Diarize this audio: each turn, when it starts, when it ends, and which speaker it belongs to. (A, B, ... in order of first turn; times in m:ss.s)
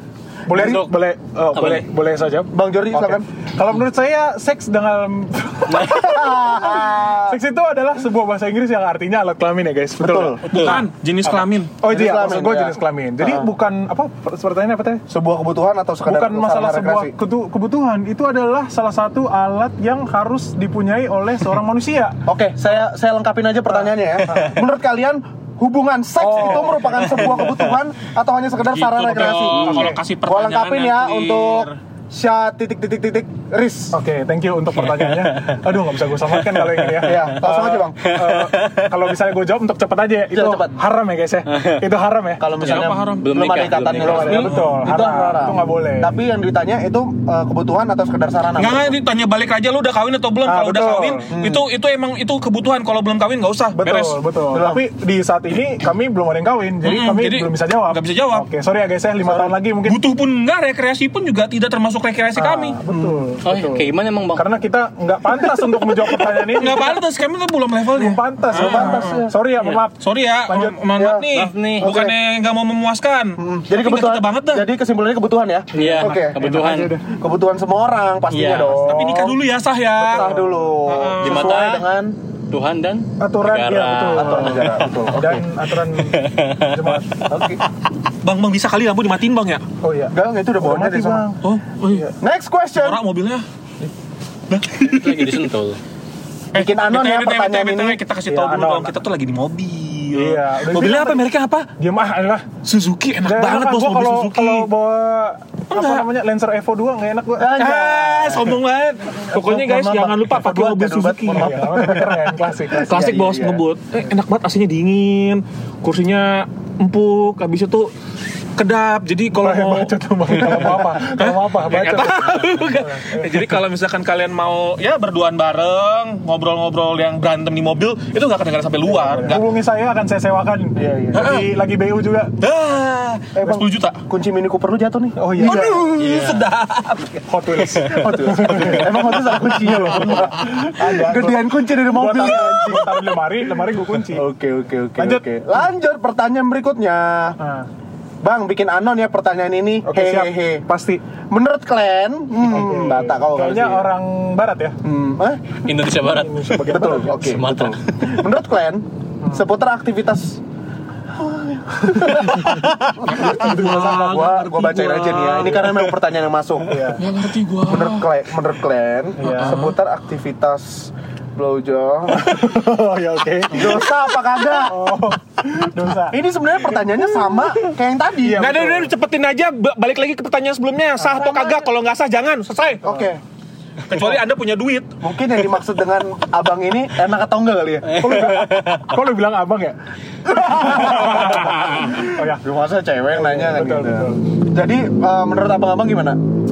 0:00.5-0:15.0 A
0:00.5-0:00.9 B
0:00.6-0:00.8 C
0:01.5-0:01.8 B
0:02.5-0:03.3 C
0:05.7-0:07.4 C
0:10.0-0:10.8 C
0:10.5-0:11.7 D
0:11.8-0:13.5 C
0:15.1-0:17.1 C
0:16.1-0:22.2 A
0:22.3-0:34.0 C
0:24.3-0:24.6 A
0:26.2-0:27.3 A
0:28.7-0:31.8 D
0:29.6-0:30.0 A
0:33.9-0:42.5 A
0:34.8-0:35.6 B
0:36.2-0:37.2 B
0:37.0-0:38.0 C
0:38.1-0:38.9 B
0:40.3-0:40.8 C
0:41.5-0:41.8 B
0:42.4-0:49.0 C
0:42.6-0:43.5 D
0:42.6-0:44.5 B
0:43.9-0:46.2 A
0:44.4-0:44.8 D
0:48.6-0:54.2 D
0:50.4-0:51.3 A
0:51.3-0:51.6 C
0:53.8-1:00.0 A
0:54.5-0:54.8 C
0:56.8-0:58.5 D
0:59.2-0:59.6 C
0:59.8-1:02.8 D
1:02.4-1:07.0 A
1:02.9-1:03.2 C
1:03.4-1:04.5 B
1:06.6-1:09.2 D
1:07.9-1:10.8 A
1:08.5-1:09.4 C
1:09.6-1:09.8 B
1:10.0-1:14.7 D
1:11.0-1:12.2 C
1:11.3-1:11.9 B
1:13.4-1:16.4 C
1:15.7-1:17.1 A
1:15.8-1:17.0 B
1:17.1-1:19.4 C
1:18.3-1:18.8 B
1:18.7-1:20.3 D
1:18.9-1:19.3 A
1:20.0-1:22.2 C
1:20.1-1:20.7 A
1:20.9-1:21.8 D
1:21.2-1:21.9 B
1:22.5-1:25.1 B
1:23.2-1:27.2 A
1:24.1-1:25.4 C
1:25.9-1:27.7 B
1:27.3-1:27.6 C
1:28.2-1:29.6 D
1:29.8-1:32.2 A
1:30.1-1:31.3 C
1:31.4-1:32.1 D
1:32.2-1:33.0 C
1:32.8-1:33.4 D
1:34.5-1:35.5 D
1:34.8-1:35.8 B
1:36.5-1:38.0 C
1:36.5-1:41.7 D
1:38.3-1:38.9 A
1:40.1-1:41.2 A
1:41.8-1:42.5 A
1:42.6-1:44.7 D
1:43.2-1:47.6 A
1:45.7-1:46.1 D
1:47.4-1:48.6 C
1:47.5-1:51.5 D
1:49.3-1:53.6 C
1:51.3-1:52.9 A
1:52.8-1:57.9 D
1:58.6-2:09.4 D
1:59.4-2:03.6 A
2:08.9-2:12.3 A
2:10.8-2:11.3 C
2:11.1-2:11.5 D
2:12.4-2:14.0 D
2:13.4-2:16.2 C
2:15.2-2:15.9 A
2:15.4-2:18.8 D
2:16.0-2:16.5 B
2:17.3-2:24.3 A
2:17.8-2:23.4 C
2:24.0-2:27.4 C
2:25.0-2:25.2 A
2:27.4-2:27.7 A
2:28.2-2:30.6 C
2:29.9-2:31.0 A
2:31.3-2:33.9 C
2:32.4-2:34.8 A
2:34.8-2:35.6 C
2:35.6-2:37.8 B
2:35.9-2:37.3 A
2:36.7-2:40.4 C
2:41.2-2:47.0 C
2:41.8-2:44.4 A
2:43.1-2:45.9 D
2:46.7-2:47.0 A
2:47.0-2:48.1 D
2:47.6-2:52.5 C
2:49.2-2:49.6 A
2:49.2-2:49.7 D
2:52.1-2:56.2 A
2:53.5-2:55.1 C
2:56.1-2:58.6 C
2:58.2-2:58.9 A
2:58.4-3:02.9 D
3:01.0-3:01.6 A
3:02.8-3:03.2 C
3:03.8-3:04.9 D
3:05.0-3:08.2 C
3:08.0-3:12.4 A
3:08.0-3:08.9 B
3:10.4-3:16.2 C
3:13.1-3:14.2 A